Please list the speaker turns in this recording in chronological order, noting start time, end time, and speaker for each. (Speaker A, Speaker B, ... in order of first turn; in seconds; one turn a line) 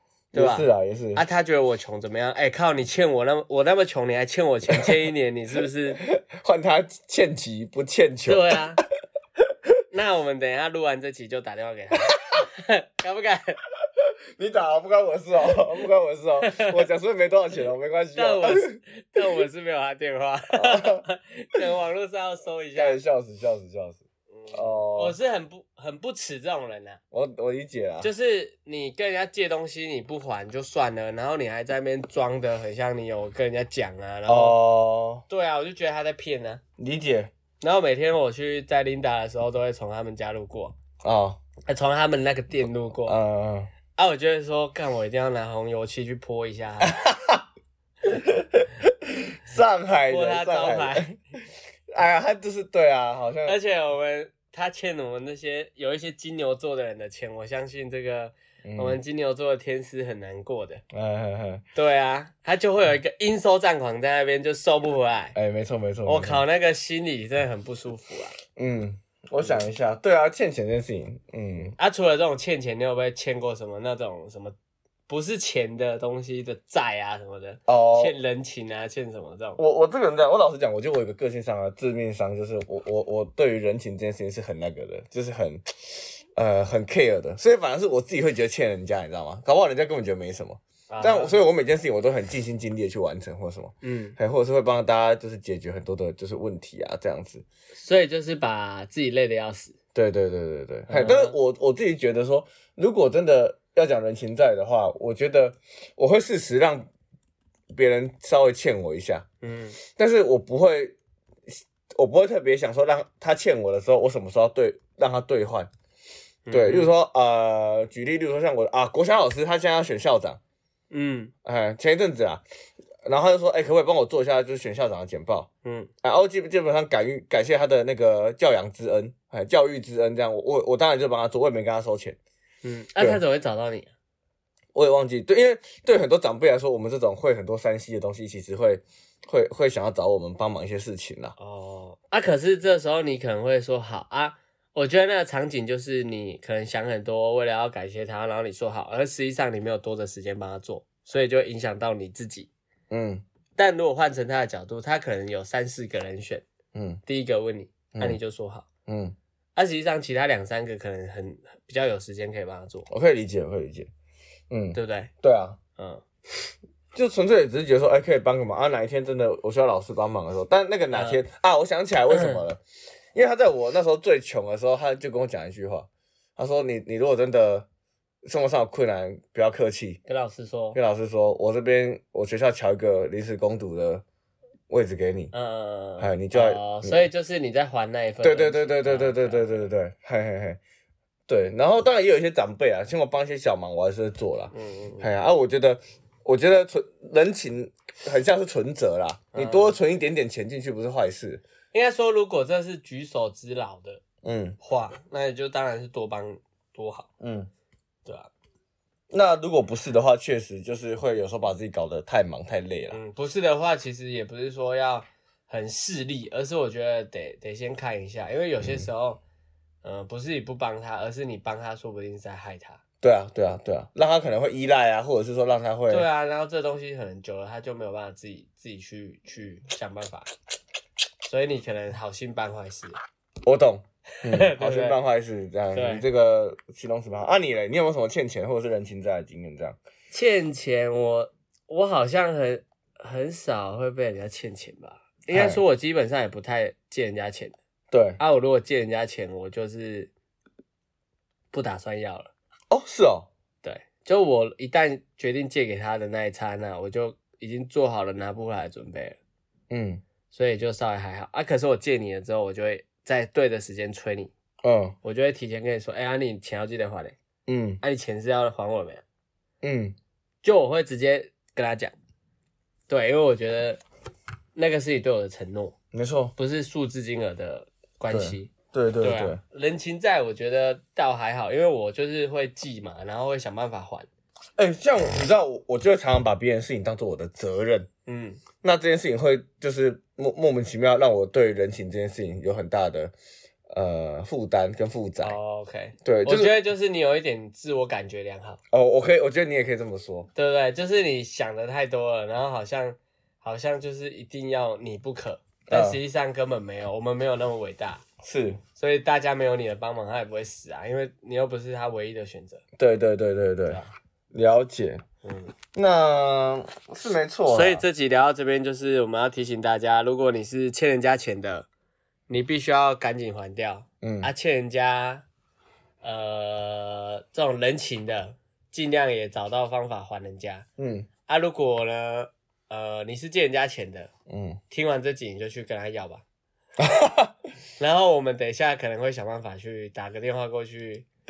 Speaker A: 0.3-1.2
Speaker B: 0.3-6.0
Speaker A: 4.7-5.0
Speaker A: 5.9-8.6
Speaker B: 8.2-8.8
Speaker B: 9.9-13.6
Speaker A: 14.0-18.8
Speaker B: 16.4-16.8
Speaker B: 18.1-23.0
Speaker A: 20.5-21.0
Speaker A: 22.8-25.2
Speaker B: 24.3-27.0
Speaker A: 27.1-28.1
Speaker B: 28.0-34.6
Speaker A: 34.2-35.2
Speaker B: 35.3-36.6
Speaker A: 36.8-37.3
Speaker B: 37.6-40.8
Speaker A: 41.0-41.4
Speaker B: 41.7-43.2
Speaker A: 43.0-43.7
Speaker B: 43.9-47.0
Speaker A: 46.8-47.4
Speaker A: 48.1-53.6
Speaker B: 50.1-51.1
Speaker B: 53.4-60.8
Speaker A: 58.6-59.0
Speaker A: 60.9-61.6
Speaker B: 61.7-65.3
Speaker A: 65.3-66.4
Speaker B: 66.0-68.4
Speaker A: 68.6-71.7
Speaker B: 71.8-74.5
Speaker B: 75.1-79.6
Speaker A: 77.7-78.1
Speaker A: 79.6-97.4
Speaker B: 90.9-91.4
Speaker B: 93.8-94.2
Speaker B: 97.7-99.7
Speaker A: 99.9-106.9
Speaker B: 100.9-101.4
Speaker A: 107.7-109.2
Speaker B: 109.4-109.8
Speaker A: 110.0-111.0
Speaker A: 111.9-115.7
Speaker B: 116.5-116.9
Speaker A: 116.5-120.4
Speaker B: 120.9-121.3
Speaker A: 121.4-122.4
Speaker A: 123.0-125.5
Speaker B: 125.6-125.9
Speaker A: 126.0-132.2
Speaker B: 132.6-133.9
Speaker A: 133.0-133.2
Speaker A: 134.7-141.3
Speaker B: 141.4-152.5
Speaker A: 152.9-153.2
Speaker B: 153.6-156.4
Speaker A: 156.7-157.0
Speaker B: 157.1-158.6
Speaker A: 157.9-158.2
Speaker A: 158.9-159.1
Speaker B: 159.5-162.9
Speaker A: 162.9-163.9
Speaker A: 164.5-165.6
Speaker B: 164.7-165.1
Speaker B: 165.8-166.0
Speaker A: 166.9-172.6
Speaker B: 170.9-171.2
Speaker B: 172.1-172.4
Speaker A: 173.1-177.7
Speaker A: 178.2-180.0
Speaker B: 180.1-180.8
Speaker A: 180.7-184.0
Speaker A: 184.7-185.3
Speaker B: 185.3-189.5
Speaker A: 186.0-187.0
Speaker A: 188.2-190.6
Speaker A: 191.3-201.4
Speaker B: 194.5-195.1
Speaker B: 199.3-199.8
Speaker B: 201.7-204.0
Speaker A: 204.2-204.6
Speaker B: 204.6-207.1
Speaker A: 207.2-207.5
Speaker A: 209.1-213.0
Speaker B: 212.9-219.2
Speaker A: 218.6-218.9
Speaker B: 219.8-222.8
Speaker A: 223.0-226.1
Speaker B: 225.9-230.3
Speaker B: 231.2-233.0
Speaker A: 233.4-239.8
Speaker B: 234.3-235.0
Speaker B: 235.7-236.0
Speaker B: 240.1-247.5
Speaker A: 245.3-245.6
Speaker A: 247.9-248.2
Speaker B: 248.2-250.1
Speaker B: 251.5-252.3
Speaker A: 252.7-253.3
Speaker B: 253.6-259.2
Speaker A: 259.7-260.0
Speaker B: 260.3-264.3
Speaker A: 264.6-264.9
Speaker B: 265.0-267.1
Speaker A: 267.5-267.8
Speaker B: 267.8-269.0
Speaker A: 269.6-269.9
Speaker B: 270.4-271.9
Speaker B: 272.9-273.8
Speaker B: 274.6-275.7
Speaker A: 275.9-276.3
Speaker B: 276.4-284.1
Speaker A: 278.1-279.4
Speaker A: 284.6-287.9
Speaker B: 288.1-288.4
Speaker A: 288.6-293.1
Speaker A: 293.7-295.4
Speaker B: 295.2-298.6
Speaker A: 296.0-296.6
Speaker A: 298.7-300.3
Speaker B: 300.4-308.0
Speaker A: 305.7-306.0
Speaker A: 308.2-308.6
Speaker B: 308.8-312.6
Speaker A: 312.8-313.8
Speaker B: 313.7-313.9
Speaker A: 314.3-315.0
Speaker B: 315.2-315.5
Speaker A: 315.7-317.8
Speaker B: 317.5-321.7
Speaker B: 322.3-325.2
Speaker A: 324.0-324.3
Speaker B: 326.0-330.6
Speaker A: 330.8-331.1
Speaker B: 331.3-334.1
Speaker A: 334.3-334.6
Speaker B: 334.7-336.2
Speaker A: 336.8-337.3
Speaker B: 337.8-341.1